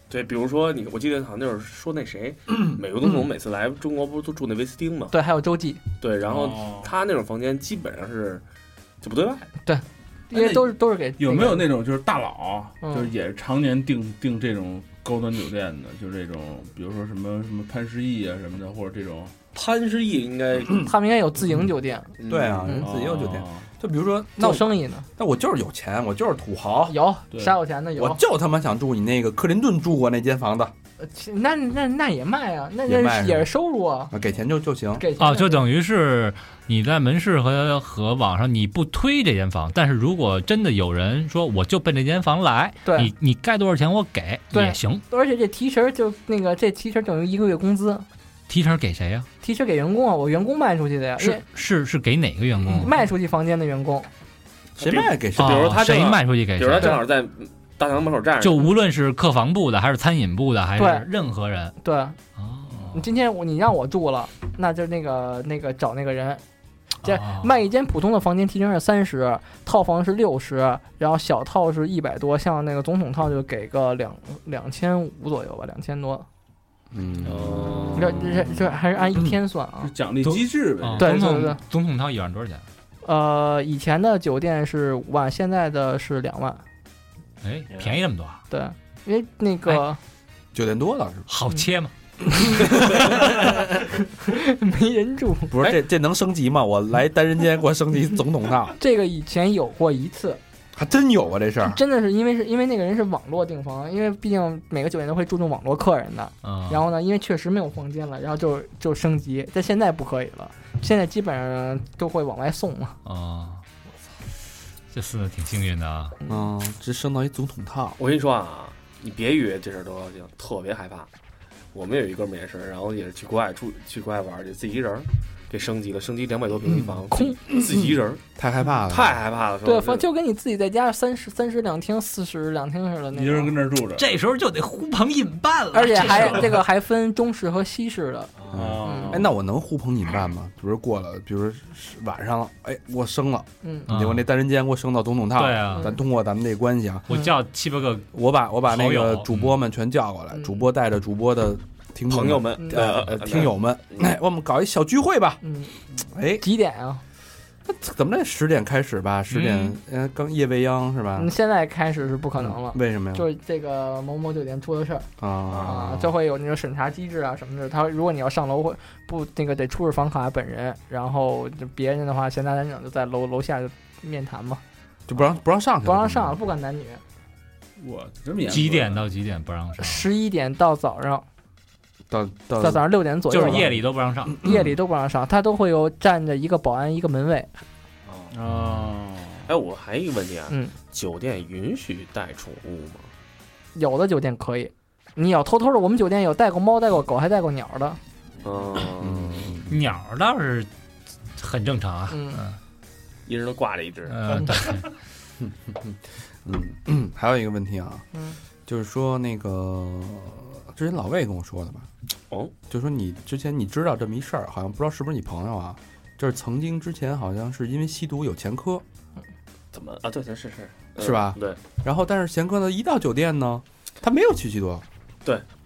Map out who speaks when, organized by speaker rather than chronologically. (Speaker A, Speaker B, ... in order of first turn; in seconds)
Speaker A: 0.1-5.2, 6.0-8.4, 9.0-9.5, 19.5-20.9, 22.2-22.7, 54.8-58.7, 77.2-78.6, 118.0-121.1, 121.7-128.2, 128.9-130.1, 152.1-154.1, 189.5-193.1, 198.4-199.6, 203.3-204.6, 219.7-221.6
Speaker B: 5.1-5.8, 9.7-11.7, 12.8-13.1, 20.8-22.1, 24.4-25.1, 26.9-28.2, 31.0-34.1, 35.0-35.6, 42.9-43.1, 44.5-48.0, 49.4-51.4, 52.7-54.1, 60.8-61.0, 61.8-62.2, 62.9-66.4, 67.0-76.3, 78.0-79.9, 81.0-81.6, 83.0-86.6, 88.5-90.0, 92.4-95.6, 98.8-100.4, 101.6-113.0, 127.1-127.4, 129.6-133.6, 135.7-138.3, 138.8-139.2, 143.6-143.9, 150.3-150.7, 155.4-155.7, 156.4-157.0, 161.2-165.1, 165.6-174.6, 175.8-177.0, 179.8-181.2, 182.6-183.7, 184.4-187.5, 193.8-198.0, 202.1-202.4
Speaker C: 6.2-6.9, 10.3-19.4, 22.7-23.7, 27.3-27.6, 79.8-81.5, 133.1-134.1, 138.5-139.3, 177.8-179.1, 188.3-189.5
Speaker D: 22.3-27.0, 28.0-30.7, 32.9-33.5, 34.1-35.1, 52.6-52.9, 54.8-55.8, 76.9-77.6, 90.5-91.3, 92.6-92.9, 95.5-98.8, 100.8-101.8, 116.3-118.0, 126.7-126.9, 127.5-129.2, 138.5-147.1, 148.1-155.4, 156.1-156.4, 157.7-161.3, 162.4-163.3, 165.2-166.2, 175.1-176.4, 182.1-184.7, 199.0-199.8, 205.4-208.1, 208.7-211.9, 212.7-218.8, 221.0-224.8
Speaker E: 35.2-45.0, 48.5-49.3, 51.2-52.9, 55.4-57.0, 58.4-61.8, 62.4-63.0, 67.0-67.5, 80.2-82.7, 87.4-88.4, 91.3-91.9, 92.5-93.3, 106.4-106.9, 113.0-113.6, 114.9-116.2, 134.0-136.6, 143.9-144.3, 145.4-145.9, 147.1-149.6, 159.3-159.8, 178.5-180.1, 183.3-184.4, 188.5-188.9, 199.7-200.7, 201.4-202.6, 204.1-204.8